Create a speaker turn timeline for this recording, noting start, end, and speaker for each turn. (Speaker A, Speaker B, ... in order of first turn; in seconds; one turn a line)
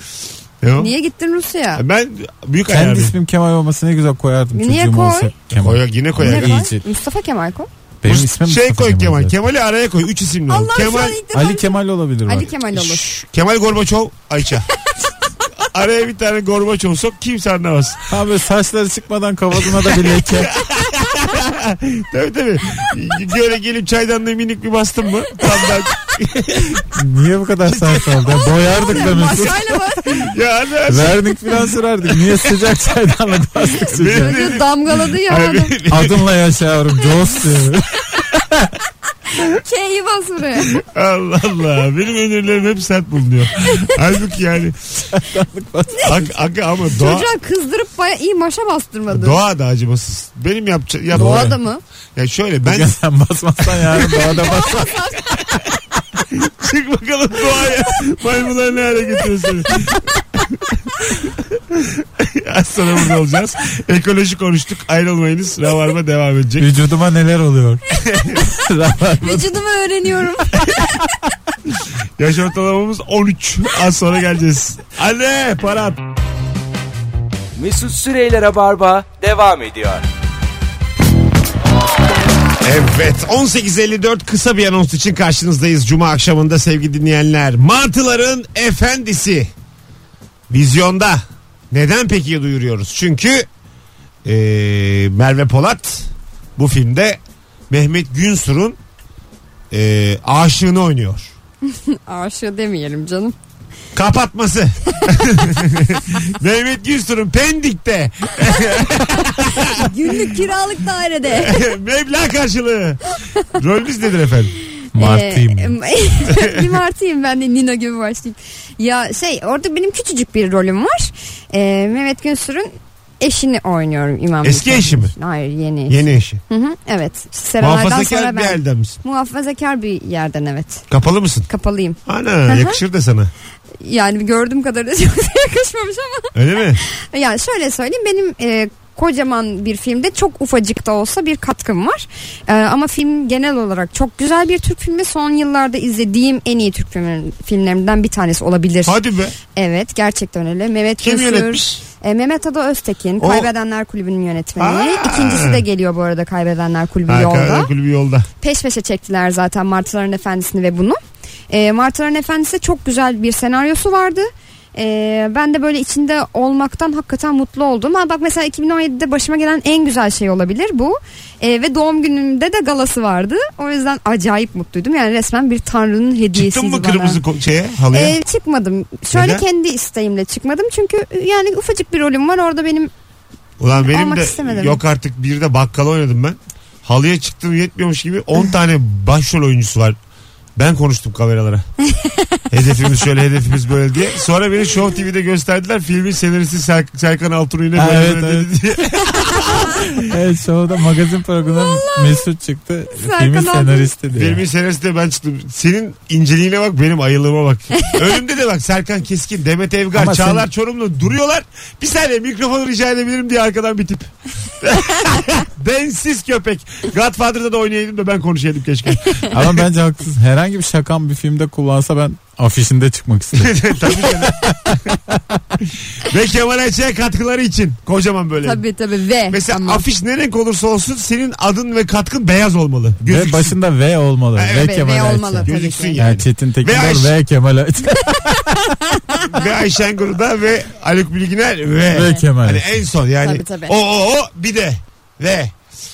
Speaker A: 0.6-0.9
Speaker B: 0.8-1.8
Speaker A: 1.7-3.1
Speaker C: 2.7-6.8
Speaker B: 4.5-5.3
Speaker A: 5.6-6.5
Speaker B: 6.2-7.7
Speaker C: 8.0-9.3
Speaker A: 8.0-11.2
Speaker B: 10.5-13.1
Speaker C: 11.3-12.5
Speaker A: 12.7-14.7
Speaker A: 15.6-18.0
Speaker C: 18.1-20.5
Speaker A: 20.1-26.9
Speaker C: 26.9-29.7
Speaker A: 27.6-28.7
Speaker B: 28.8-30.3
Speaker A: 30.2-31.4
Speaker C: 30.9-34.5
Speaker A: 33.8-36.3
Speaker B: 34.0-35.7
Speaker C: 35.9-38.7
Speaker B: 39.5-40.8
Speaker A: 40.8-44.8
Speaker C: 45.1-46.3
Speaker A: 46.0-47.3
Speaker B: 46.9-49.4
Speaker A: 49.1-51.5
Speaker B: 51.1-51.8
Speaker C: 51.1-51.6
Speaker A: 52.1-53.0
Speaker C: 52.6-55.0
Speaker A: 53.7-54.4
Speaker B: 54.4-55.2
Speaker A: 56.3-60.5
Speaker A: 61.1-66.7
Speaker C: 66.6-67.8
Speaker A: 68.0-68.4
Speaker C: 68.5-69.5
Speaker B: 69.2-70.8
Speaker A: 72.2-76.0
Speaker D: 77.5-80.0
Speaker A: 82.6-89.5
Speaker A: 90.5-93.5
Speaker A: 94.2-97.2
Speaker A: 97.7-98.8
Speaker A: 99.7-101.3
Speaker B: 101.7-103.3
Speaker A: 103.9-110.4
Speaker B: 109.6-111.6
Speaker A: 111.3-114.5
Speaker C: 114.9-115.8
Speaker B: 115.0-130.8
Speaker A: 116.3-116.8
Speaker A: 124.4-125.1
Speaker A: 125.9-126.4
Speaker A: 127.6-129.0
Speaker A: 130.9-131.5
Speaker B: 131.5-132.8
Speaker A: 132.1-133.3
Speaker B: 133.8-148.9
Speaker A: 136.3-136.8
Speaker A: 148.8-149.3
Speaker B: 149.5-157.7
Speaker A: 151.0-151.8
Speaker A: 153.2-153.5
Speaker A: 154.6-155.6
Speaker A: 157.1-158.3
Speaker B: 158.4-161.0
Speaker B: 161.5-177.2
Speaker A: 176.3-178.2
Speaker B: 177.9-182.9
Speaker A: 179.1-179.4
Speaker A: 183.6-190.0
Speaker B: 183.8-184.8
Speaker A: 190.6-191.7
Speaker B: 191.9-192.2
Speaker A: 192.5-200.0
Speaker C: 197.8-198.5
Speaker C: 199.9-204.4
Speaker B: 201.6-202.1
Speaker B: 202.9-203.9
Speaker A: 204.1-219.6
Speaker C: 209.9-210.5
Speaker C: 219.3-225.3
Speaker A: 223.3-224.9
Speaker A: 226.0-228.6
Speaker B: 228.4-229.8
Speaker A: 229.3-233.6
Speaker C: 233.0-238.8
Speaker A: 234.3-237.1
Speaker B: 234.5-236.0
Speaker B: 238.3-239.2
Speaker A: 239.2-245.5
Speaker C: 241.9-242.8
Speaker B: 243.2-243.8